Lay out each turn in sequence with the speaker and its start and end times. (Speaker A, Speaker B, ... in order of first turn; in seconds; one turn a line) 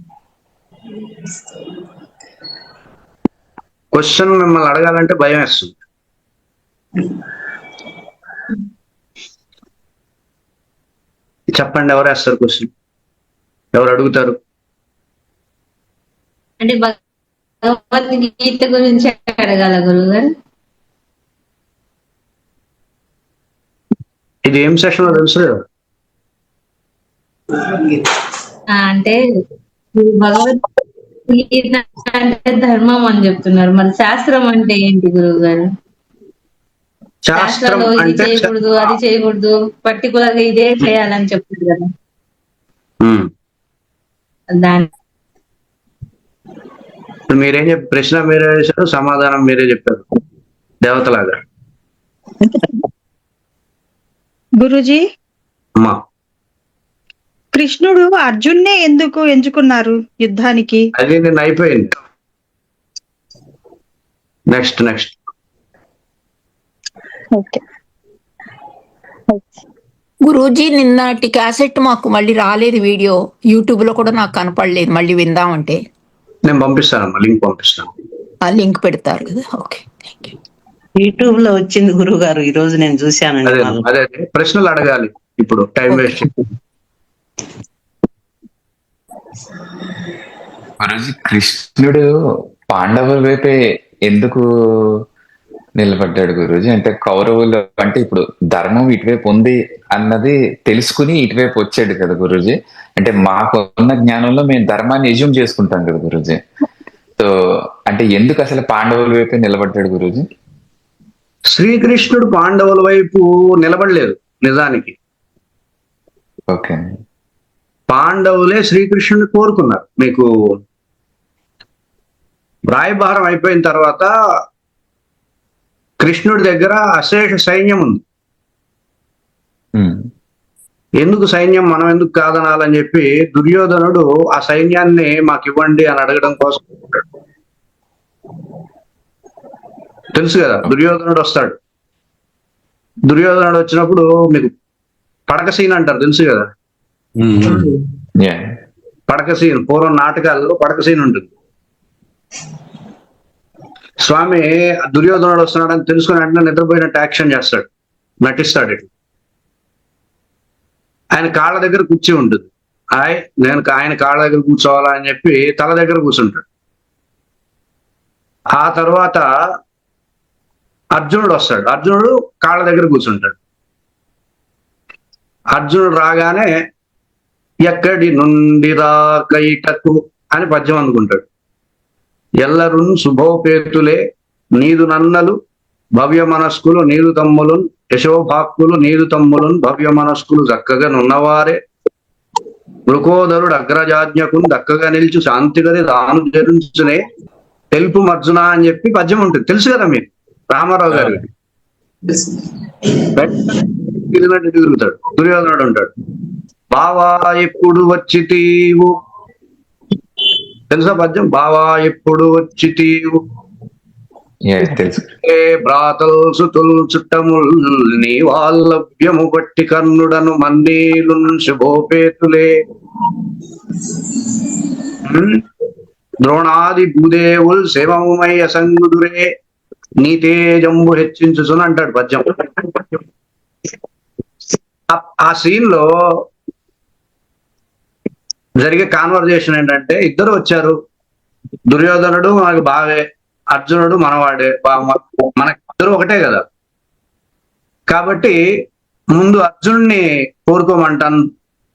Speaker A: 3.9-5.7
Speaker A: 11.6-12.7
Speaker A: 13.8-14.4
Speaker B: 16.6-16.9
Speaker B: 17.6-20.2
Speaker A: 24.5-25.6
Speaker B: 28.7-29.2
Speaker B: 30.0-30.6
Speaker B: 31.3-35.6
Speaker A: 37.3-38.5
Speaker B: 37.4-41.9
Speaker A: 43.0-43.3
Speaker B: 44.5-44.9
Speaker A: 47.3-50.0
Speaker A: 50.8-51.4
Speaker C: 54.6-55.0
Speaker C: 57.5-60.8
Speaker A: 61.0-61.9
Speaker A: 64.5-65.2
Speaker C: 67.3-67.6
Speaker D: 70.3-75.8
Speaker A: 76.5-77.9
Speaker D: 78.4-80.3
Speaker E: 81.0-83.9
Speaker A: 83.5-86.3
Speaker D: 85.9-86.2
Speaker F: 90.8-92.1
Speaker F: 92.7-95.0
Speaker F: 95.8-106.4
Speaker F: 107.9-110.2
Speaker A: 111.5-115.0
Speaker F: 116.5-116.8
Speaker A: 117.9-120.3
Speaker A: 122.7-124.1
Speaker A: 126.0-128.0
Speaker F: 129.8-130.0
Speaker A: 131.0-137.0
Speaker A: 140.1-141.6
Speaker A: 143.1-144.5
Speaker A: 145.3-146.5
Speaker A: 147.3-147.7
Speaker A: 149.1-151.3
Speaker A: 154.0-157.7
Speaker A: 158.2-158.9
Speaker A: 161.1-166.4
Speaker A: 168.6-169.3
Speaker A: 170.9-173.4
Speaker A: 175.5-176.5
Speaker A: 177.7-181.2
Speaker A: 182.4-184.0
Speaker A: 184.6-185.4
Speaker A: 186.0-191.6
Speaker A: 192.9-197.0
Speaker A: 197.8-201.2
Speaker A: 203.1-205.9
Speaker A: 206.7-208.9
Speaker A: 210.7-213.2
Speaker F: 214.4-215.1
Speaker A: 215.2-222.5
Speaker A: 225.1-225.4
Speaker A: 226.2-229.3
Speaker A: 230.0-232.4
Speaker A: 234.9-235.9
Speaker A: 238.6-240.8
Speaker A: 241.7-246.4
Speaker A: 247.9-248.4
Speaker A: 249.2-251.2